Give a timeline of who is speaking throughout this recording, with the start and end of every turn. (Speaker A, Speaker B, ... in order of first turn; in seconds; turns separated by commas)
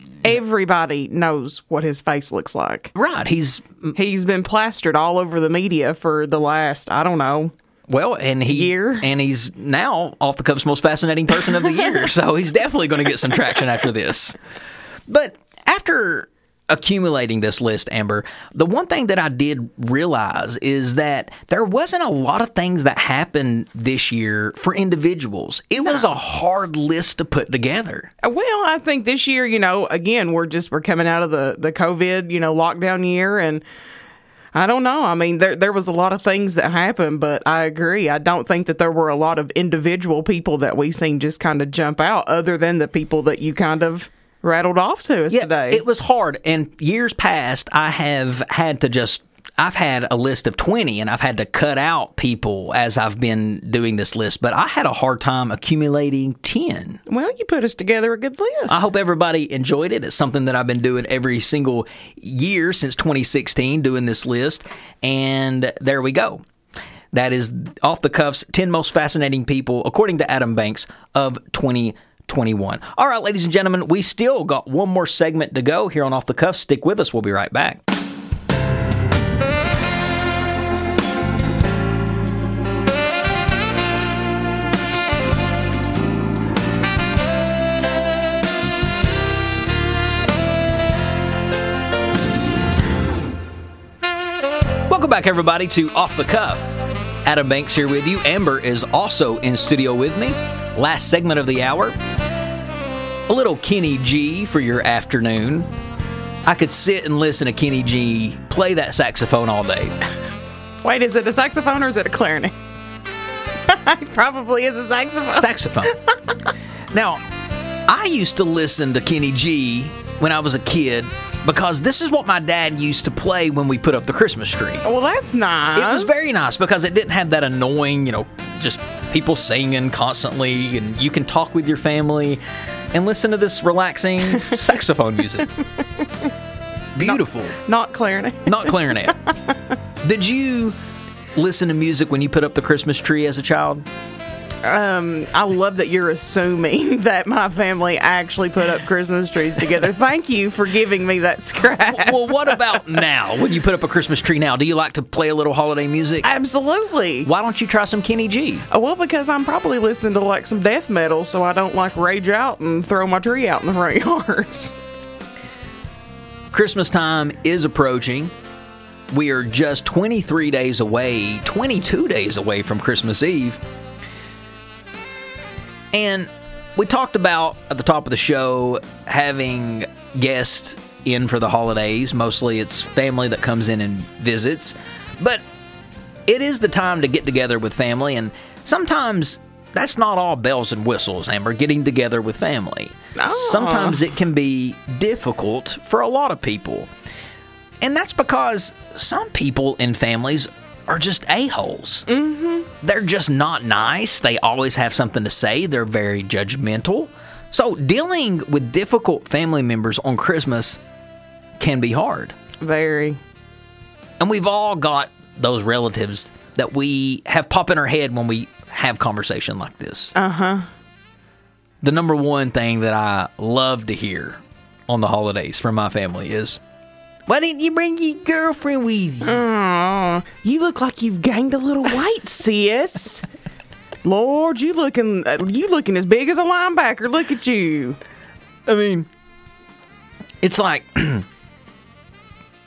Speaker A: 0.2-2.9, Speaker B: 2.9-3.9, Speaker A: 3.9-7.5, Speaker B: 7.9-14.4, Speaker A: 8.5-9.1, Speaker B: 15.1-28.1, Speaker A: 28.2-33.6, Speaker A: 34.5-45.8, Speaker B: 45.3-57.0, Speaker A: 57.1-58.8, Speaker B: 58.7-66.4, Speaker B: 67.1-77.8, Speaker B: 94.9-96.7, Speaker B: 97.2-102.0, Speaker B: 103.3-105.7, Speaker B: 106.4-110.0, Speaker A: 110.8-112.5, Speaker A: 113.7-116.0, Speaker B: 115.4-115.9, Speaker B: 116.9-117.2, Speaker B: 117.9-124.8, Speaker A: 124.8-126.3, Speaker B: 125.7-135.5, Speaker B: 136.9-137.6, Speaker A: 137.6-138.7, Speaker B: 138.4-139.2, Speaker B: 140.0-140.8, Speaker B: 141.3-143.9, Speaker A: 144.6-152.7, Speaker B: 151.7-156.3, Speaker A: 156.2-157.3, Speaker B: 157.2-158.7, Speaker A: 158.7-164.7, Speaker B: 166.5-168.3, Speaker B: 169.1-173.6, Speaker B: 175.9-185.4, Speaker B: 186.3-196.9, Speaker A: 193.2-194.0, Speaker B: 197.8-202.1, Speaker A: 202.1-202.7, Speaker B: 202.8-210.8, Speaker B: 211.6-212.3, Speaker A: 212.6-213.2, Speaker B: 214.2-220.1, Speaker A: 220.1-220.7, Speaker B: 221.8-226.6, Speaker B: 227.2-229.4, Speaker A: 229.2-233.2, Speaker A: 234.0-238.0, Speaker B: 238.7-239.1, Speaker B: 240.4-241.2